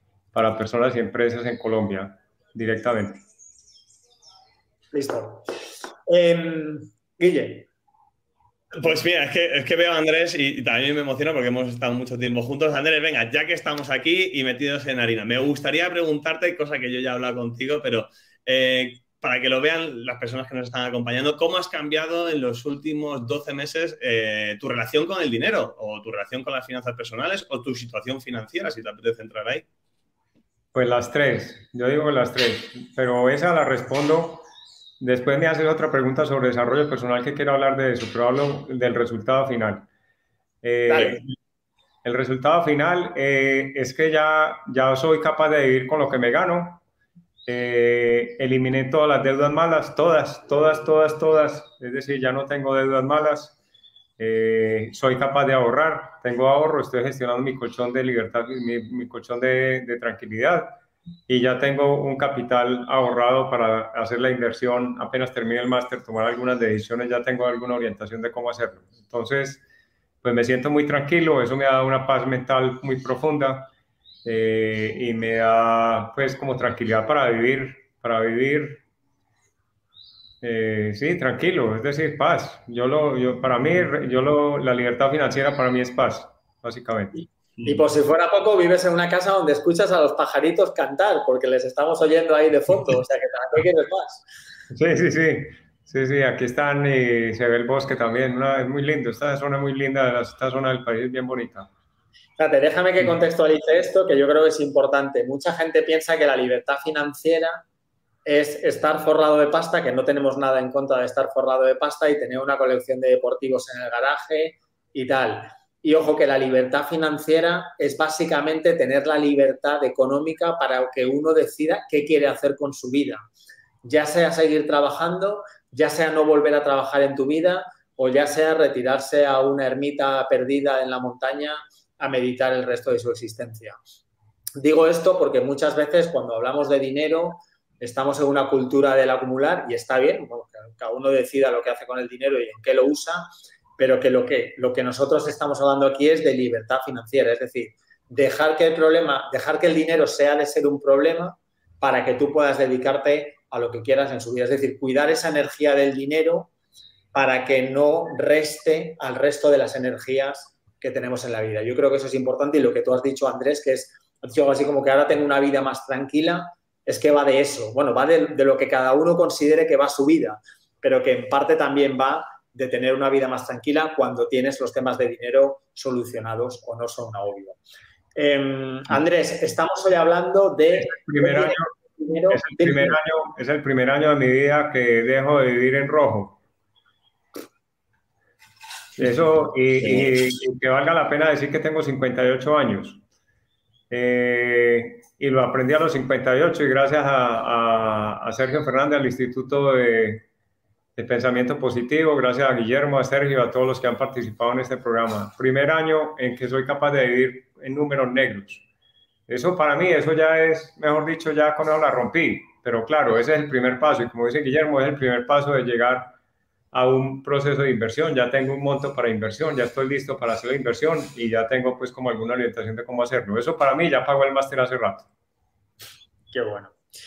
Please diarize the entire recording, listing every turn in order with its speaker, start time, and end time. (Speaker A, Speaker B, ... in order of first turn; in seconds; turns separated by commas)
Speaker A: 0.3-3.2, Speaker B: 4.9-5.5, Speaker B: 6.1-7.7, Speaker C: 8.7-29.7, Speaker A: 30.7-34.5, Speaker A: 35.0-39.9, Speaker A: 40.6-41.3, Speaker B: 40.9-41.2, Speaker A: 42.0-46.8, Speaker A: 47.5-53.6, Speaker A: 54.2-69.6, Speaker A: 70.2-73.7, Speaker A: 74.2-78.8, Speaker A: 80.4-87.2, Speaker B: 87.6-94.2, Speaker A: 94.7-101.7, Speaker B: 102.4-107.6, Speaker B: 108.2-123.2, Speaker B: 123.8-133.8, Speaker B: 134.6-156.5, Speaker B: 157.1-177.6, Speaker B: 178.2-183.0, Speaker A: 180.8-181.7, Speaker A: 182.3-186.4, Speaker A: 189.0-193.0, Speaker A: 193.9-200.2, Speaker A: 201.0-208.6, Speaker A: 209.3-216.2, Speaker A: 216.7-225.1, Speaker B: 226.3-226.8